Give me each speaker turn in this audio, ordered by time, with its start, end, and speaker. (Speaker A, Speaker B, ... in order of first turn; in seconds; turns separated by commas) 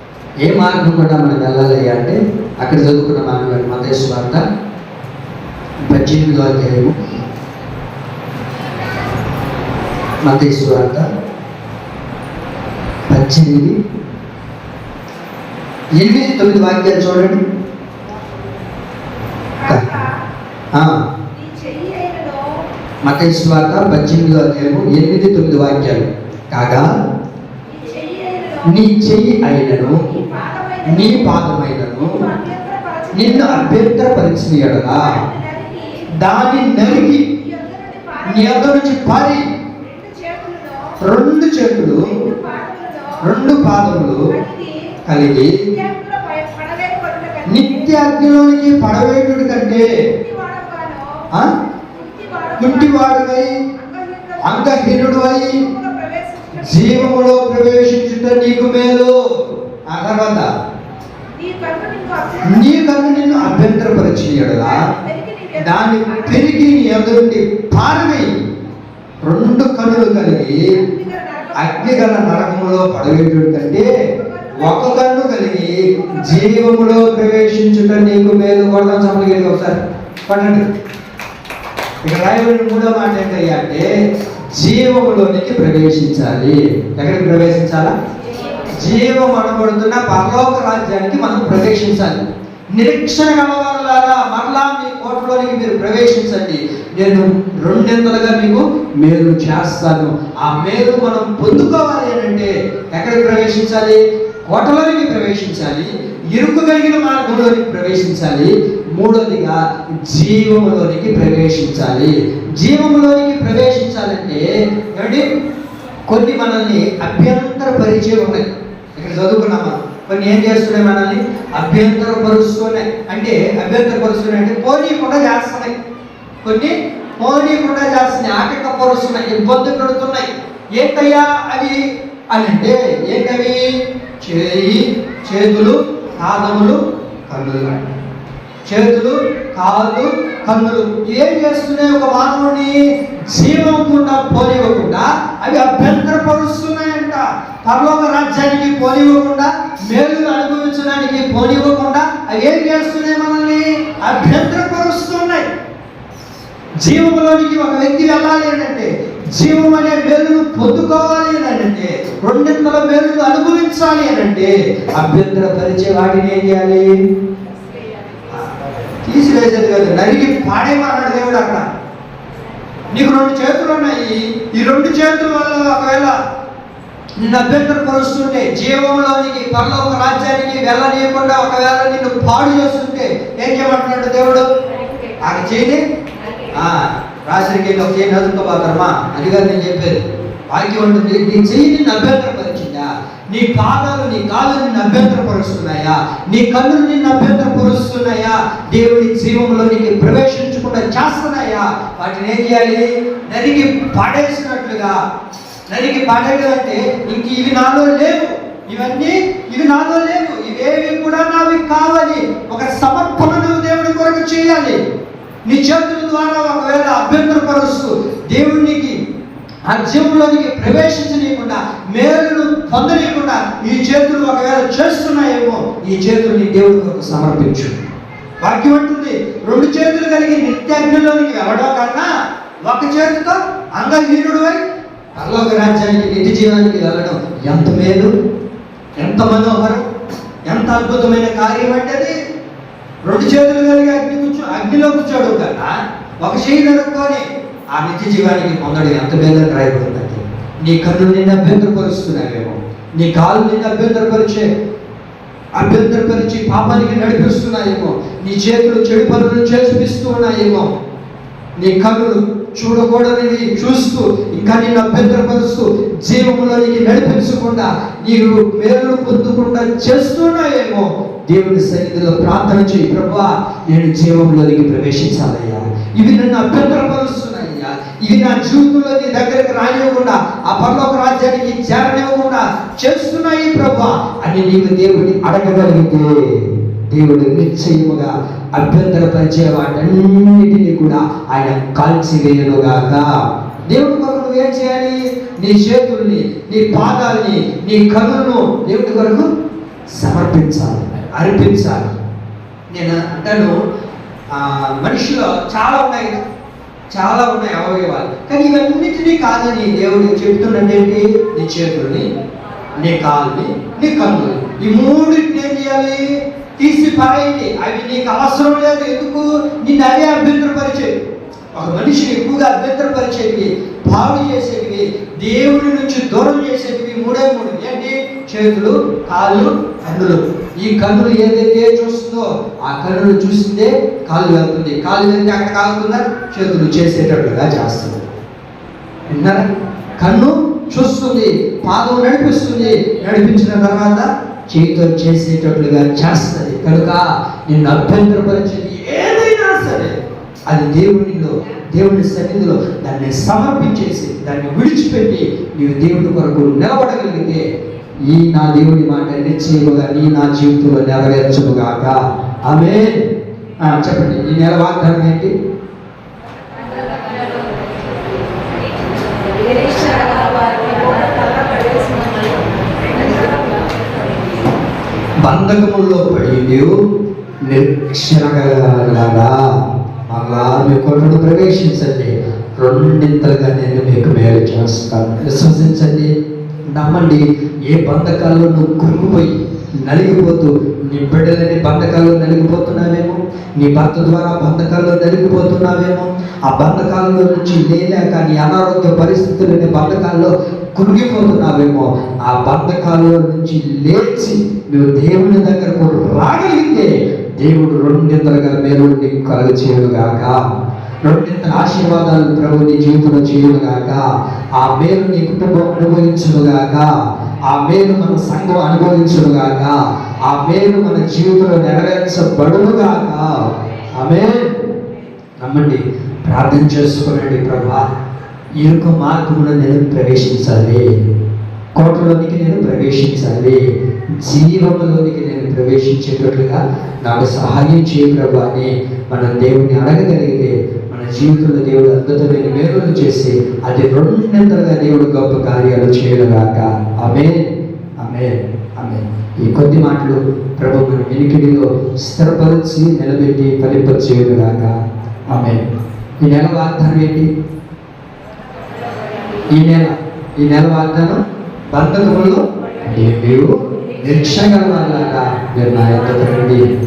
Speaker A: 0.4-4.4, Speaker A: 5.8-7.0, Speaker A: 10.2-11.1, Speaker A: 13.1-13.8, Speaker A: 15.9-17.4, Speaker A: 19.6-20.1, Speaker A: 20.7-21.0, Speaker B: 21.4-22.6, Speaker A: 23.0-26.9, Speaker B: 27.8-28.5, Speaker A: 28.6-30.2, Speaker A: 30.8-32.3, Speaker A: 33.1-35.2, Speaker A: 36.2-37.4, Speaker A: 38.2-39.4, Speaker B: 40.0-40.7, Speaker A: 41.0-42.3, Speaker A: 43.2-44.4, Speaker A: 45.0-45.6, Speaker B: 46.2-47.2, Speaker A: 47.4-49.9, Speaker B: 50.4-51.2, Speaker A: 52.5-53.6, Speaker A: 54.4-55.7, Speaker B: 56.0-56.5, Speaker A: 56.5-59.1, Speaker A: 59.9-60.5, Speaker B: 61.4-62.4, Speaker A: 62.4-64.8, Speaker A: 65.5-68.3, Speaker A: 69.2-70.6, Speaker A: 71.5-73.9, Speaker A: 74.5-80.6, Speaker A: 82.0-83.9, Speaker A: 84.5-87.9, Speaker A: 88.7-92.2, Speaker A: 92.7-115.2, Speaker A: 116.1-125.8, Speaker A: 126.4-137.8, Speaker A: 138.6-155.5, Speaker A: 156.8-166.9, Speaker A: 169.0-171.6, Speaker A: 172.9-176.2, Speaker A: 177.2-184.5, Speaker A: 185.2-185.8, Speaker A: 186.5-205.0, Speaker A: 205.7-214.8, Speaker A: 215.4-219.0, Speaker A: 219.7-227.8, Speaker A: 228.4-232.1, Speaker A: 232.6-234.6, Speaker A: 235.1-238.1, Speaker A: 239.0-239.8, Speaker A: 240.4-242.2, Speaker A: 243.0-254.5, Speaker A: 255.6-260.7, Speaker A: 261.6-299.3, Speaker A: 299.9-301.9, Speaker A: 302.7-303.5, Speaker A: 304.3-306.2, Speaker A: 306.9-312.1, Speaker A: 312.8-320.9, Speaker A: 321.5-338.0, Speaker A: 339.1-349.9, Speaker A: 350.5-357.4, Speaker A: 358.0-363.1, Speaker A: 363.6-365.3, Speaker B: 366.9-367.1, Speaker B: 369.1-374.1, Speaker A: 375.2-376.7, Speaker A: 377.4-379.4, Speaker A: 380.1-386.1, Speaker A: 386.7-410.4, Speaker A: 411.0-414.0, Speaker A: 414.6-416.9, Speaker A: 417.4-424.5, Speaker A: 425.4-427.9, Speaker A: 428.6-430.9, Speaker A: 431.8-433.6, Speaker A: 434.2-454.8, Speaker A: 455.3-455.6, Speaker A: 456.2-457.3, Speaker A: 459.5-461.2, Speaker A: 461.7-466.6